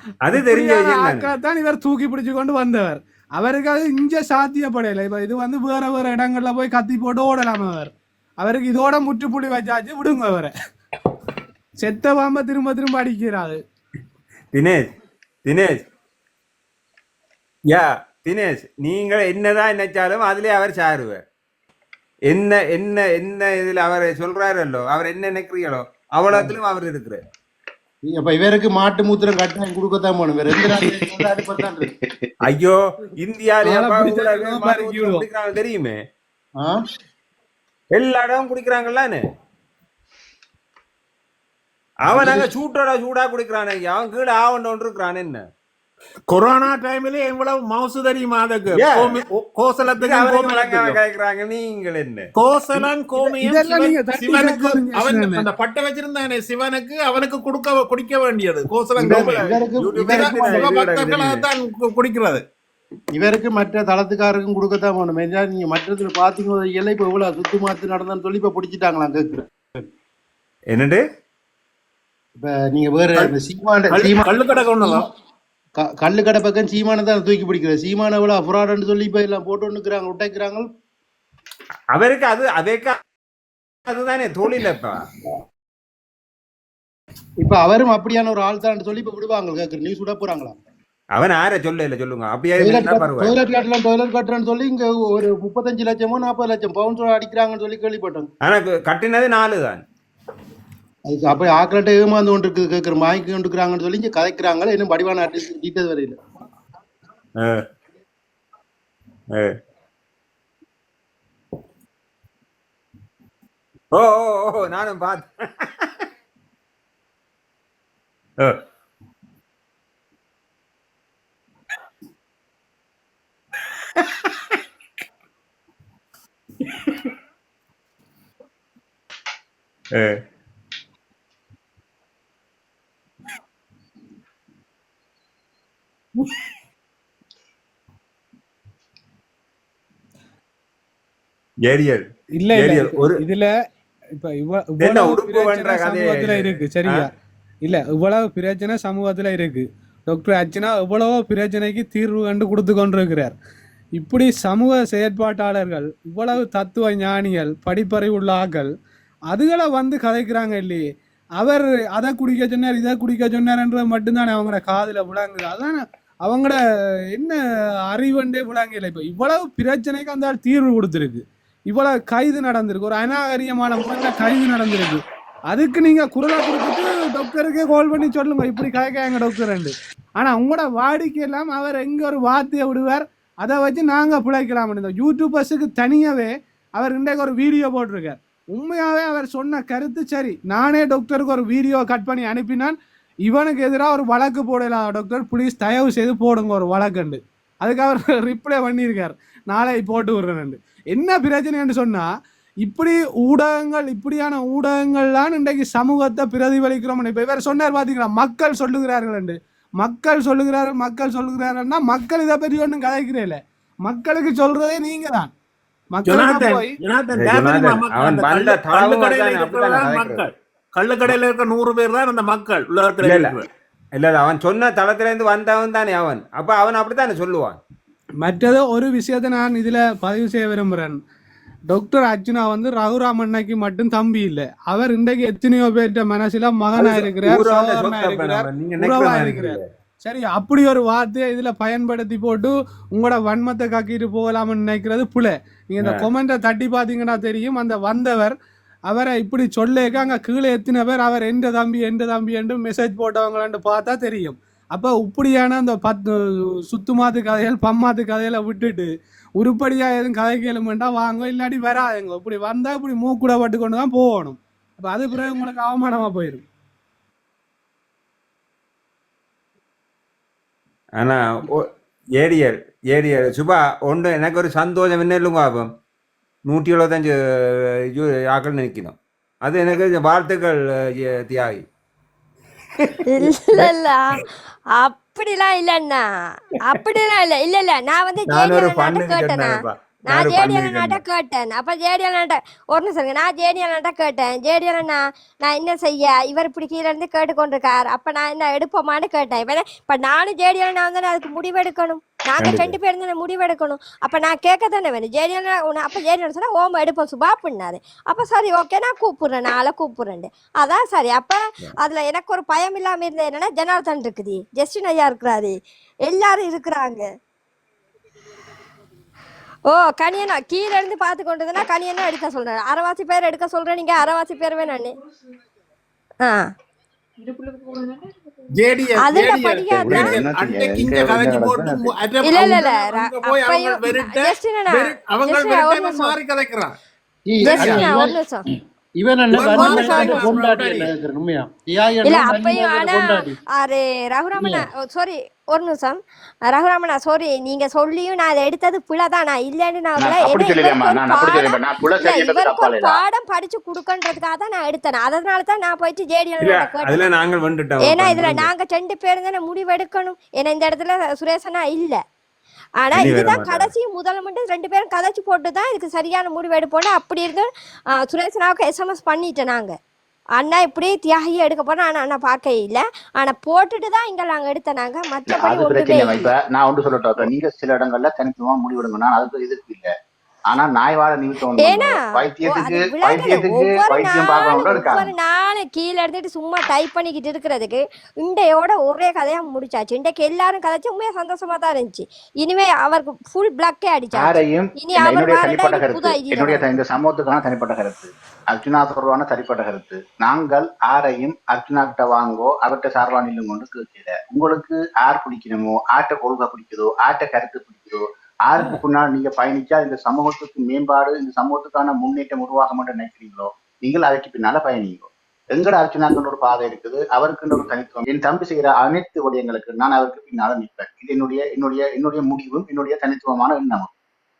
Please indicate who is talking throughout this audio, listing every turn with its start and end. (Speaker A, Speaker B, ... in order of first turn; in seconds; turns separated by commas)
Speaker A: 0.2-1.3, Speaker B: 0.3-10.5, Speaker B: 11.8-13.6, Speaker A: 14.5-14.9, Speaker A: 15.4-15.8, Speaker A: 17.7-21.2, Speaker A: 22.3-27.2, Speaker C: 28.1-31.9, Speaker D: 30.7-31.2, Speaker D: 31.8-32.2, Speaker A: 32.4-36.0, Speaker B: 33.6-35.2, Speaker A: 37.9-39.2, Speaker A: 42.0-45.5, Speaker C: 42.1-42.5, Speaker E: 46.3-51.0, Speaker A: 48.8-49.2, Speaker A: 50.0-52.3, Speaker E: 52.3-59.5, Speaker B: 53.3-55.5, Speaker C: 59.0-60.8, Speaker A: 59.1-61.5, Speaker E: 60.0-62.4, Speaker C: 63.1-69.5, Speaker A: 70.7-71.0, Speaker C: 72.4-75.0, Speaker E: 73.9-75.1, Speaker C: 75.8-80.7, Speaker A: 81.9-83.0, Speaker A: 83.9-85.0, Speaker C: 87.4-90.6, Speaker A: 91.1-93.4, Speaker C: 92.6-98.3, Speaker A: 98.4-99.8, Speaker C: 101.1-106.2, Speaker A: 107.4-107.7, Speaker A: 109.3-109.6, Speaker A: 113.9-116.0, Speaker A: 124.0-124.5, Speaker A: 126.8-127.1, Speaker A: 129.9-130.2, Speaker A: 141.7-143.2, Speaker B: 142.4-143.5, Speaker B: 144.2-147.1, Speaker A: 144.8-147.1, Speaker B: 147.6-153.3, Speaker B: 154.0-158.7, Speaker B: 159.3-160.8, Speaker B: 161.4-166.6, Speaker B: 167.1-167.4, Speaker B: 167.9-202.1, Speaker B: 202.6-215.3, Speaker B: 215.9-216.8, Speaker E: 216.1-223.4, Speaker A: 217.1-220.2, Speaker A: 223.0-223.4, Speaker A: 223.9-227.6, Speaker B: 228.2-231.0, Speaker B: 231.7-248.3, Speaker A: 236.8-239.7, Speaker A: 245.8-246.1, Speaker B: 248.9-266.4, Speaker A: 271.0-275.7, Speaker A: 276.5-281.6, Speaker A: 282.8-283.7, Speaker F: 283.1-289.6, Speaker A: 288.3-291.0, Speaker F: 290.1-315.6, Speaker A: 302.4-302.8, Speaker F: 316.1-317.1, Speaker F: 319.7-324.9, Speaker F: 326.2-326.5, Speaker E: 328.5-336.7, Speaker F: 329.0-330.2, Speaker D: 329.7-331.8, Speaker F: 332.2-336.1, Speaker C: 337.3-338.2, Speaker F: 337.4-338.4, Speaker C: 339.0-343.4, Speaker E: 339.3-340.9, Speaker F: 339.4-340.4, Speaker F: 342.0-357.1, Speaker C: 344.4-344.7, Speaker D: 350.0-353.0, Speaker A: 356.4-358.5, Speaker F: 357.8-362.0, Speaker F: 362.8-367.5, Speaker A: 362.9-363.7, Speaker F: 368.1-369.7, Speaker F: 370.4-376.3, Speaker D: 375.3-379.9, Speaker D: 380.5-385.1, Speaker F: 381.6-396.7, Speaker D: 394.1-423.9